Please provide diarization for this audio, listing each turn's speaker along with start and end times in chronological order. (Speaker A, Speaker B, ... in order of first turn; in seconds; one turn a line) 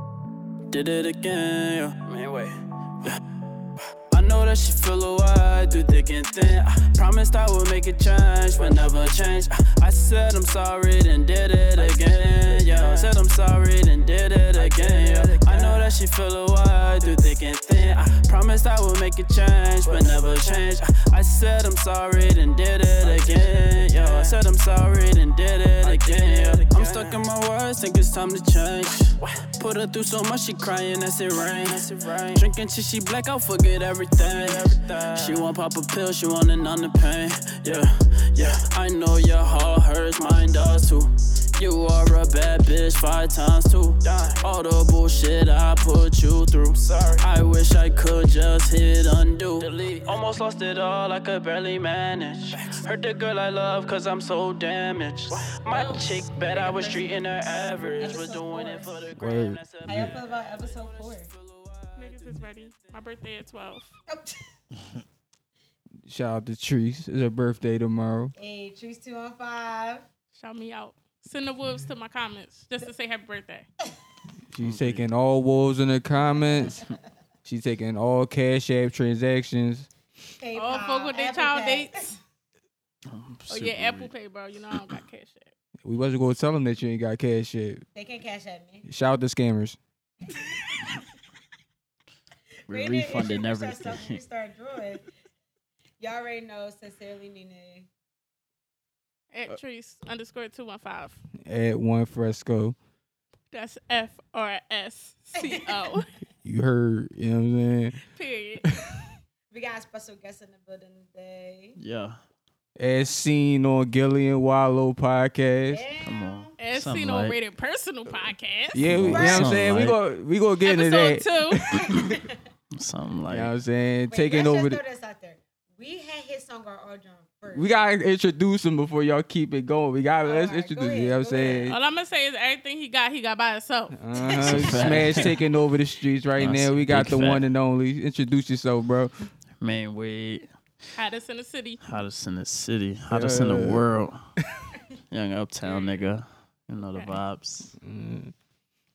Speaker A: 0.7-3.2
Speaker A: 4.1-62.5
Speaker B: 14.7-15.8
Speaker B: 23.0-23.5
Speaker B: 25.9-27.1
Speaker C: 55.7-57.0
Speaker C: 58.0-59.0
Speaker D: 59.1-60.1
Speaker C: 59.9-61.3
Speaker E: 62.0-63.9
Speaker C: 64.1-64.4
Speaker D: 66.1-68.3
Speaker C: 68.4-70.0
Speaker E: 70.4-73.7
Speaker D: 74.5-76.8
Speaker B: 74.6-75.1
Speaker D: 77.5-79.9
Speaker C: 80.4-82.2
Speaker E: 80.5-82.2
Speaker B: 83.1-84.1
Speaker E: 83.5-85.5
Speaker D: 85.8-87.8
Speaker C: 87.9-88.9
Speaker D: 88.9-89.8
Speaker B: 92.7-94.2
Speaker C: 92.7-95.0
Speaker C: 96.0-97.9
Speaker E: 99.3-101.2
Speaker D: 101.5-102.8
Speaker E: 103.5-106.1
Speaker D: 106.4-108.0
Speaker E: 108.1-108.7
Speaker D: 108.7-109.1
Speaker C: 109.5-111.8
Speaker B: 111.8-112.2
Speaker D: 112.8-115.8
Speaker C: 115.7-116.5
Speaker B: 116.0-117.4
Speaker E: 116.6-118.9
Speaker D: 118.7-122.2
Speaker B: 118.9-120.0
Speaker C: 119.1-119.5
Speaker E: 120.7-121.6
Speaker C: 121.9-122.2
Speaker B: 122.8-123.5
Speaker D: 123.3-124.8
Speaker C: 124.1-127.7
Speaker D: 127.5-131.8
Speaker C: 130.2-131.7
Speaker E: 131.7-134.5
Speaker D: 133.9-139.1
Speaker B: 134.4-135.4
Speaker B: 136.4-137.5
Speaker B: 139.6-140.5
Speaker E: 141.0-141.8
Speaker B: 141.9-144.2
Speaker D: 143.1-143.8
Speaker D: 144.4-144.7
Speaker B: 145.1-147.7
Speaker E: 145.6-146.1
Speaker D: 147.8-148.3